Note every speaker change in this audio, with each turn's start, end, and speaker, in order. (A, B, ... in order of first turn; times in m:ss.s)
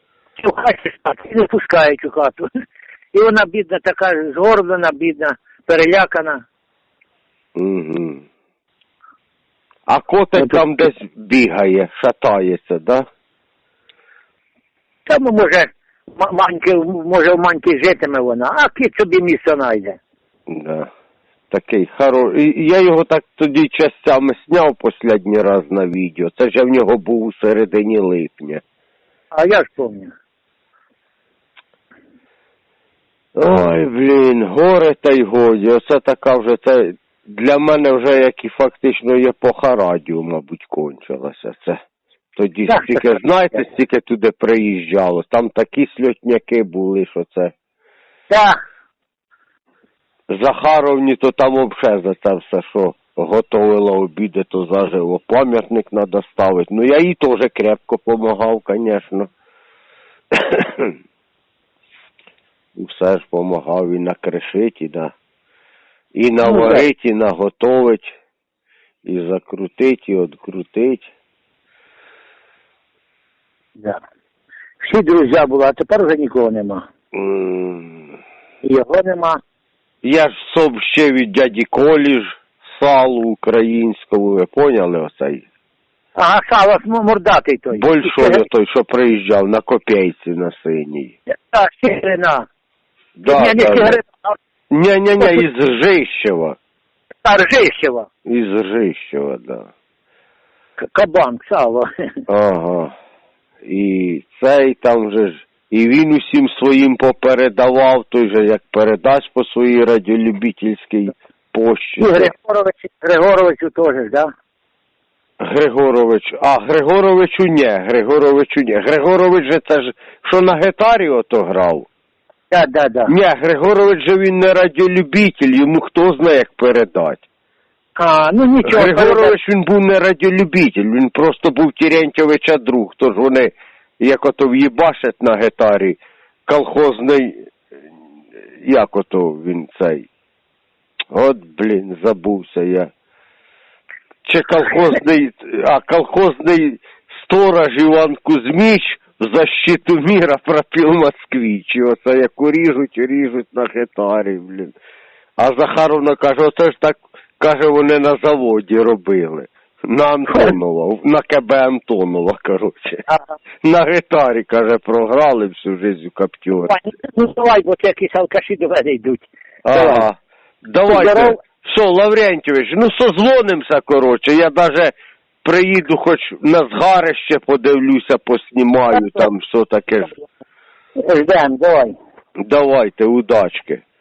0:00.4-0:02.5 A
0:03.1-0:06.4 A
0:07.6-0:08.2 B
0:09.9-0:13.0 B
0:10.4-0:10.6 A
0:15.1-0:20.0 A
0:20.5-0:20.9 B
0:21.5-0:28.6 B
0:29.3-0:30.1 A
0:33.4-0:41.8 B
0:42.4-0:47.5 B
0:42.7-0:43.6 A
0:48.3-0:48.6 A
0:50.3-0:59.3 B
1:00.4-1:00.9 B
1:02.8-1:05.1 B
1:06.2-1:08.1 B
1:06.4-1:06.8 A
1:09.0-1:11.1 B
1:14.8-1:16.9 A
1:17.1-1:18.1 B
1:18.6-1:19.4 A
1:20.0-1:25.4 B
1:26.2-1:28.4 A
1:27.7-1:31.1 B
1:31.3-1:32.5 A
1:33.2-1:34.0 B
1:33.3-1:34.4 A
1:34.7-1:36.6 B
1:35.2-1:35.5 A
1:37.2-1:38.1 A
1:38.3-1:39.7 B
1:40.8-1:41.9 A
1:42.3-1:42.9 B
1:43.7-1:52.3 B
1:52.0-1:54.3 A
1:55.4-2:01.8 B
2:02.5-2:03.1 A
2:03.1-2:07.2 B
2:08.0-2:09.4 A
2:08.6-2:17.4 B
2:18.6-2:20.1 B
2:21.1-2:22.9 B
2:24.3-2:34.7 B
2:35.4-2:43.0 B
2:40.3-2:40.6 A
2:43.1-2:43.3 A
2:43.6-2:46.8 B
2:46.7-2:50.1 A
2:49.6-2:50.1 B
2:50.6-2:54.9 B
2:50.9-2:51.4 A
2:55.4-3:00.1 B
2:58.9-2:59.3 A
3:01.0-3:01.9 A
3:02.5-3:03.8 B